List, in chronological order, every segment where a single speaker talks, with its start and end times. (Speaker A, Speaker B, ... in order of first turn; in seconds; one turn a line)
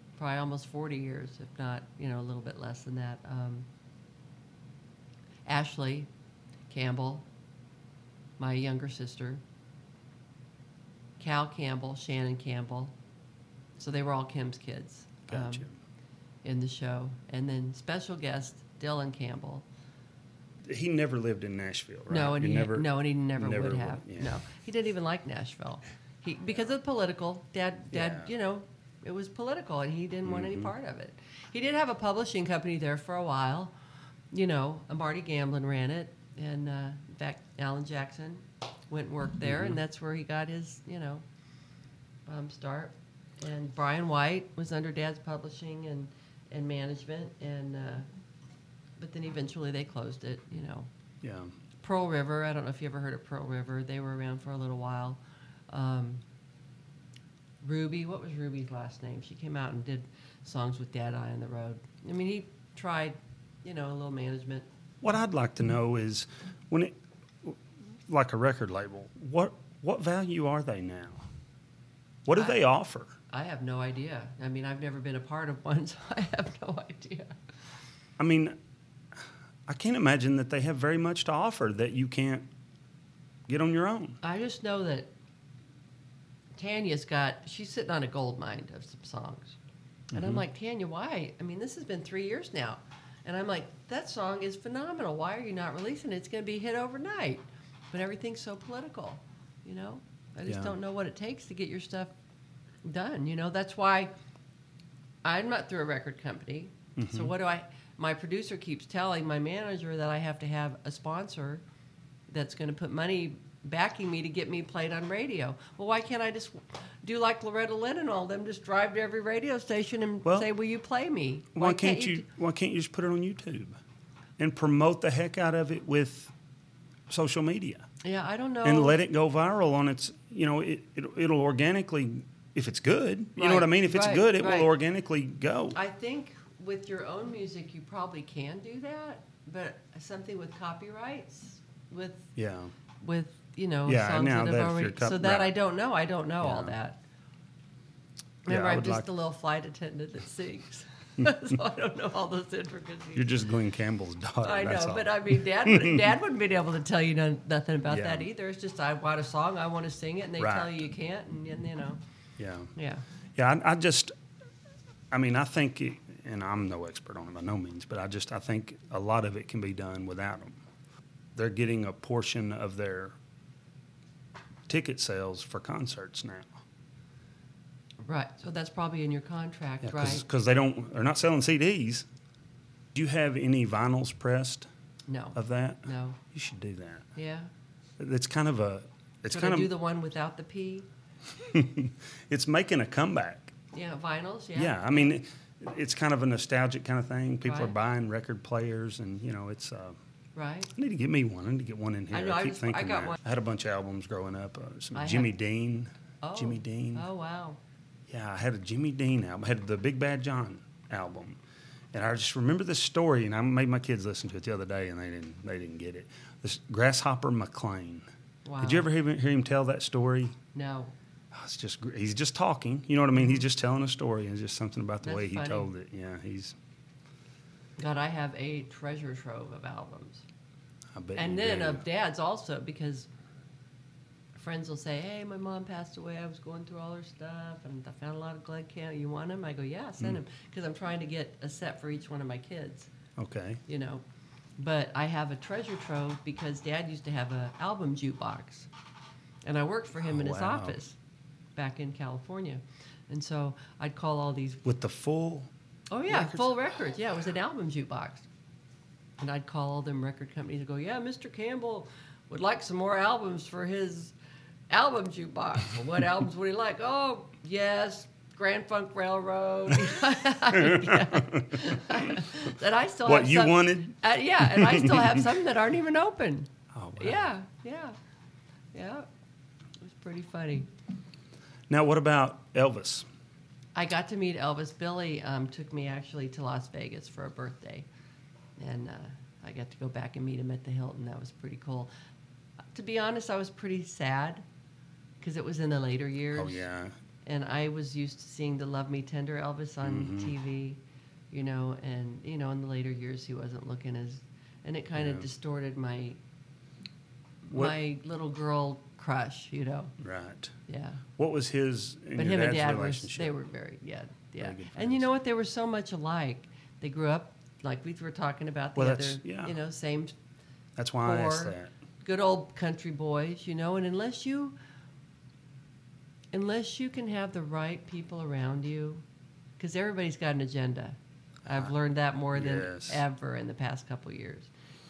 Speaker A: 0.2-3.7
Speaker A: 5.5-6.1
Speaker A: 6.7-7.3
Speaker A: 8.4-9.4
Speaker A: 11.2-12.9
Speaker A: 13.8-15.7
Speaker B: 15.3-15.8
Speaker A: 16.4-19.7
Speaker B: 20.6-24.4
Speaker A: 22.1-33.7
Speaker B: 27.9-28.3
Speaker B: 30.2-30.7
Speaker A: 34.3-41.2
Speaker B: 39.4-39.8
Speaker A: 42.3-48.1
Speaker A: 49.0-50.9
Speaker B: 51.2-51.5
Speaker A: 51.8-56.2
Speaker A: 57.6-64.7
Speaker B: 65.0-71.3
Speaker B: 72.2-73.1
Speaker A: 72.3-72.6
Speaker A: 73.3-77.4
Speaker B: 78.2-78.6
Speaker B: 79.2-82.5
Speaker B: 83.5-84.2
Speaker A: 84.2-85.1
Speaker A: 86.6-89.6
Speaker B: 90.1-90.4
Speaker A: 90.1-102.1
Speaker B: 100.5-100.8
Speaker A: 102.8-104.1
Speaker A: 105.2-111.6
Speaker B: 107.0-107.3
Speaker A: 112.3-122.3
Speaker B: 121.5-123.8
Speaker B: 124.4-126.3
Speaker B: 127.1-127.9
Speaker A: 128.0-129.0
Speaker B: 128.6-135.8
Speaker A: 133.4-134.7
Speaker A: 135.7-142.3
Speaker B: 142.4-142.7
Speaker A: 143.0-147.0
Speaker B: 143.9-145.5
Speaker B: 146.4-146.8
Speaker A: 148.5-153.4
Speaker B: 148.5-149.1
Speaker B: 153.2-156.2
Speaker A: 154.4-162.0
Speaker B: 157.9-158.3
Speaker B: 160.4-160.8
Speaker B: 162.4-162.7
Speaker A: 162.8-163.0
Speaker B: 163.4-164.1
Speaker B: 165.1-170.6
Speaker B: 171.3-173.2
Speaker B: 174.7-176.5
Speaker A: 178.0-180.2
Speaker B: 179.8-182.1
Speaker B: 182.9-184.7
Speaker A: 185.1-186.2
Speaker B: 185.3-187.1
Speaker A: 187.2-187.5
Speaker B: 188.0-189.7
Speaker A: 189.3-190.9
Speaker B: 191.4-193.5
Speaker A: 193.7-195.1
Speaker B: 194.6-200.0
Speaker A: 197.4-197.8
Speaker A: 200.4-200.7
Speaker B: 200.7-207.1
Speaker A: 202.1-203.2
Speaker A: 204.9-205.3
Speaker A: 206.2-207.6
Speaker B: 208.1-211.4
Speaker B: 211.9-218.1
Speaker A: 218.4-218.9
Speaker B: 218.6-220.4
Speaker A: 220.5-220.9
Speaker B: 221.3-226.6
Speaker A: 225.0-225.7
Speaker A: 227.8-230.2
Speaker B: 230.9-231.8
Speaker A: 231.2-233.1
Speaker A: 234.4-242.9
Speaker B: 243.2-243.6
Speaker A: 243.7-244.0
Speaker A: 244.6-248.7
Speaker A: 249.5-251.0
Speaker B: 249.9-250.8
Speaker A: 251.6-254.7
Speaker B: 254.7-255.5
Speaker A: 255.9-258.3
Speaker B: 256.1-256.6
Speaker A: 259.2-264.1
Speaker A: 264.7-278.0
Speaker B: 270.5-272.4
Speaker B: 273.1-275.3
Speaker B: 276.7-277.3
Speaker A: 278.7-279.1
Speaker A: 279.8-280.7
Speaker B: 281.7-283.1
Speaker A: 283.8-287.9
Speaker A: 288.6-291.9
Speaker A: 292.7-294.4
Speaker A: 295.2-296.7
Speaker B: 296.3-296.9
Speaker A: 297.2-300.8
Speaker B: 299.8-300.3
Speaker A: 301.3-306.2
Speaker B: 304.9-305.3
Speaker B: 307.5-307.8
Speaker A: 307.5-309.9
Speaker B: 310.0-310.5
Speaker A: 310.7-311.0
Speaker B: 311.2-313.4
Speaker A: 312.2-320.1
Speaker B: 314.4-315.1
Speaker B: 318.8-319.6
Speaker B: 320.8-321.7
Speaker A: 321.0-324.6
Speaker A: 326.3-329.0
Speaker A: 329.6-334.5
Speaker B: 332.3-333.0